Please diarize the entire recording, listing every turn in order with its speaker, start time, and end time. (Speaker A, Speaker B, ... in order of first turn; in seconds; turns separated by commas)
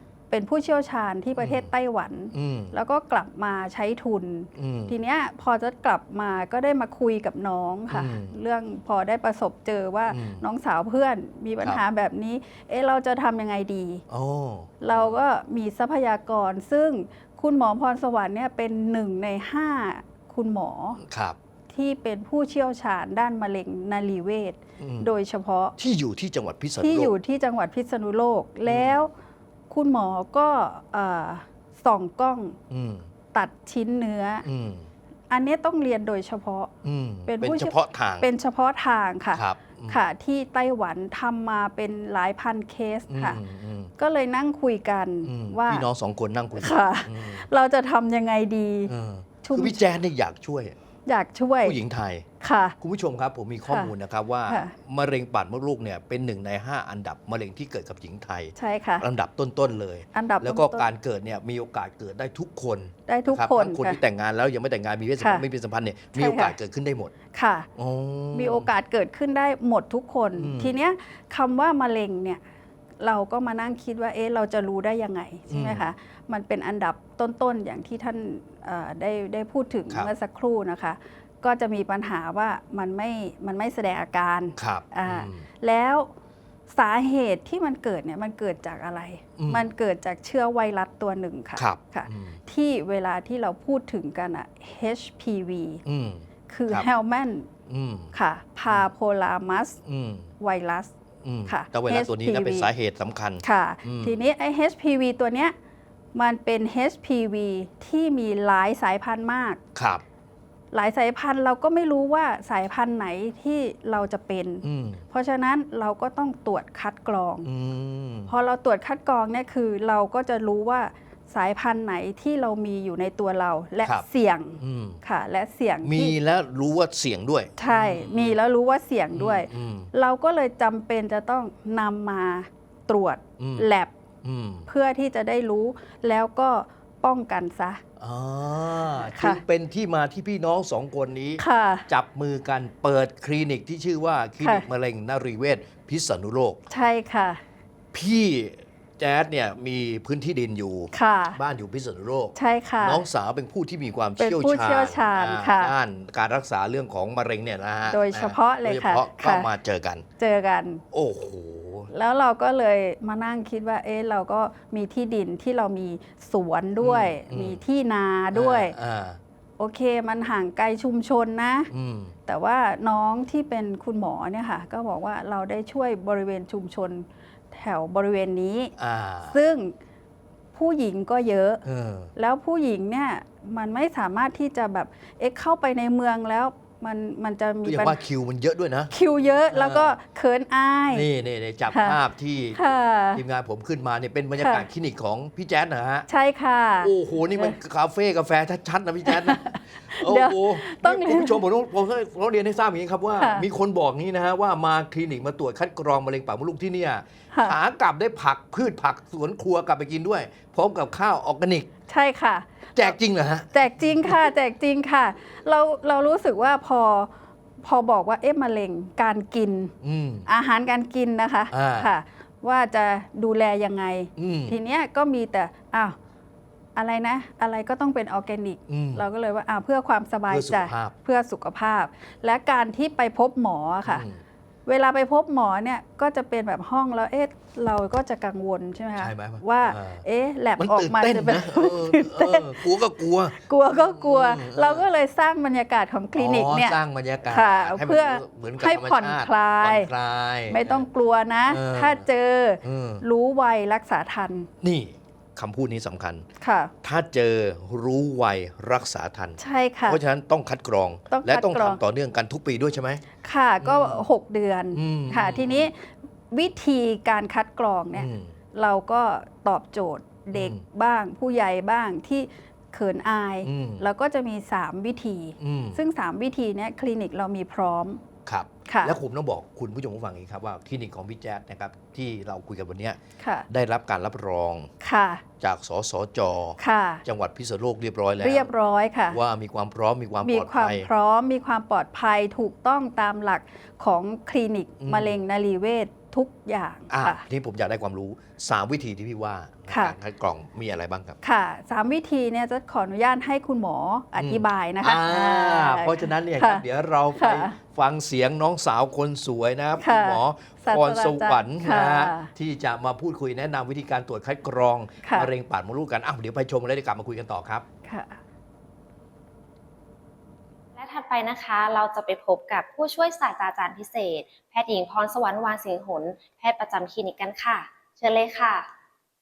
Speaker A: 0.3-14.0, Speaker B: 1.4-1.7, Speaker B: 2.3-2.7, Speaker B: 4.5-4.9, Speaker B: 7.9-8.3, Speaker B: 10.1-10.4, Speaker B: 14.1-15.2, Speaker A: 14.8-21.0, Speaker B: 21.0-21.4, Speaker A: 21.7-25.8, Speaker B: 24.8-25.1, Speaker B: 25.8-27.1, Speaker A: 26.8-29.1, Speaker B: 28.6-29.0, Speaker A: 29.7-32.6, Speaker B: 32.7-33.1, Speaker A: 33.3-34.5, Speaker B: 34.4-34.9, Speaker A: 35.3-36.7, Speaker B: 36.8-38.3, Speaker A: 37.3-43.4, Speaker B: 39.3-40.0, Speaker B: 43.1-43.9, Speaker A: 44.0-45.8, Speaker B: 45.2-47.5, Speaker A: 46.6-49.8, Speaker B: 48.9-50.7, Speaker A: 51.0-51.8, Speaker B: 51.6-52.3, Speaker A: 52.4-52.8, Speaker B: 52.8-67.1, Speaker A: 54.5-54.7, Speaker A: 58.6-59.0, Speaker A: 60.1-60.9, Speaker A: 63.1-64.0, Speaker A: 66.2-66.5, Speaker A: 67.3-67.7, Speaker B: 67.8-68.7, Speaker A: 68.3-72.4, Speaker B: 70.3-70.7, Speaker A: 73.0-86.1, Speaker B: 75.5-75.8, Speaker B: 84.6-85.5, Speaker A: 86.7-95.8, Speaker B: 89.4-89.6, Speaker B: 91.5-92.4, Speaker B: 95.8-96.9, Speaker A: 96.5-97.5, Speaker B: 97.7-98.1, Speaker A: 98.1-99.8, Speaker B: 99.8-100.3, Speaker A: 100.4-100.9, Speaker B: 101.2-104.2, Speaker A: 101.5-102.7, Speaker A: 103.4-105.5, Speaker A: 106.1-109.6, Speaker B: 109.7-110.0, Speaker A: 110.7-117.5, Speaker B: 114.6-115.0, Speaker B: 117.4-118.3, Speaker A: 118.3-126.1, Speaker B: 124.6-125.0, Speaker B: 125.8-128.4, Speaker A: 127.6-133.9, Speaker B: 129.1-129.9, Speaker B: 133.4-133.7, Speaker B: 134.2-134.7, Speaker A: 134.7-137.8, Speaker B: 138.0-146.6, Speaker A: 139.0-139.4, Speaker A: 141.4-141.8, Speaker A: 146.7-147.4, Speaker B: 147.9-160.1, Speaker A: 150.9-151.4, Speaker A: 152.3-153.0, Speaker A: 154.2-155.7, Speaker A: 157.9-159.5, Speaker A: 160.2-160.8, Speaker B: 160.9-161.9, Speaker A: 161.9-168.7, Speaker B: 166.8-167.6, Speaker B: 168.3-169.2, Speaker A: 169.6-171.7, Speaker B: 171.7-172.1, Speaker A: 172.3-178.7, Speaker B: 178.8-179.4, Speaker A: 179.3-179.7, Speaker A: 180.5-181.6, Speaker B: 181.6-182.1, Speaker A: 182.2-188.0, Speaker B: 187.6-188.9, Speaker A: 188.9-191.1, Speaker B: 189.5-189.9, Speaker B: 190.9-192.6, Speaker A: 191.7-192.0, Speaker A: 192.6-193.2, Speaker B: 193.1-196.1, Speaker A: 194.4-194.6, Speaker A: 196.1-197.5, Speaker B: 196.8-211.7, Speaker A: 199.1-201.4, Speaker A: 203.2-203.4, Speaker A: 211.9-212.9, Speaker B: 212.8-214.3, Speaker A: 213.5-217.1, Speaker A: 217.6-219.7, Speaker B: 219.8-220.3, Speaker A: 220.2-225.9, Speaker B: 221.5-221.9, Speaker B: 224.2-224.6, Speaker A: 226.8-234.0, Speaker B: 228.7-229.0, Speaker B: 230.3-230.9, Speaker B: 233.8-234.2, Speaker A: 234.7-242.7, Speaker B: 239.0-240.0, Speaker B: 240.6-244.8, Speaker A: 243.3-249.9, Speaker B: 246.1-250.8, Speaker A: 250.5-254.5, Speaker B: 251.5-252.0, Speaker B: 252.6-253.0, Speaker B: 254.6-256.3, Speaker A: 256.4-256.7, Speaker B: 256.8-263.0, Speaker A: 259.4-260.0, Speaker A: 261.1-261.8, Speaker A: 263.2-278.0, Speaker B: 263.6-264.0, Speaker B: 264.7-265.7, Speaker B: 267.9-268.4, Speaker B: 270.3-270.6, Speaker B: 273.4-273.9, Speaker B: 275.4-275.8, Speaker B: 278.2-283.0, Speaker A: 278.7-278.9, Speaker A: 283.2-283.5, Speaker B: 283.5-284.7, Speaker A: 284.8-285.2, Speaker B: 285.4-288.5, Speaker A: 286.6-287.0, Speaker A: 288.2-289.2, Speaker B: 289.1-290.9, Speaker A: 290.2-297.2, Speaker B: 294.8-295.2, Speaker B: 296.9-301.2, Speaker A: 299.7-299.9, Speaker A: 301.2-306.6, Speaker B: 304.1-317.6, Speaker A: 307.1-307.6, Speaker A: 309.8-312.3, Speaker A: 315.0-315.3, Speaker A: 317.8-318.2, Speaker C: 320.7-328.7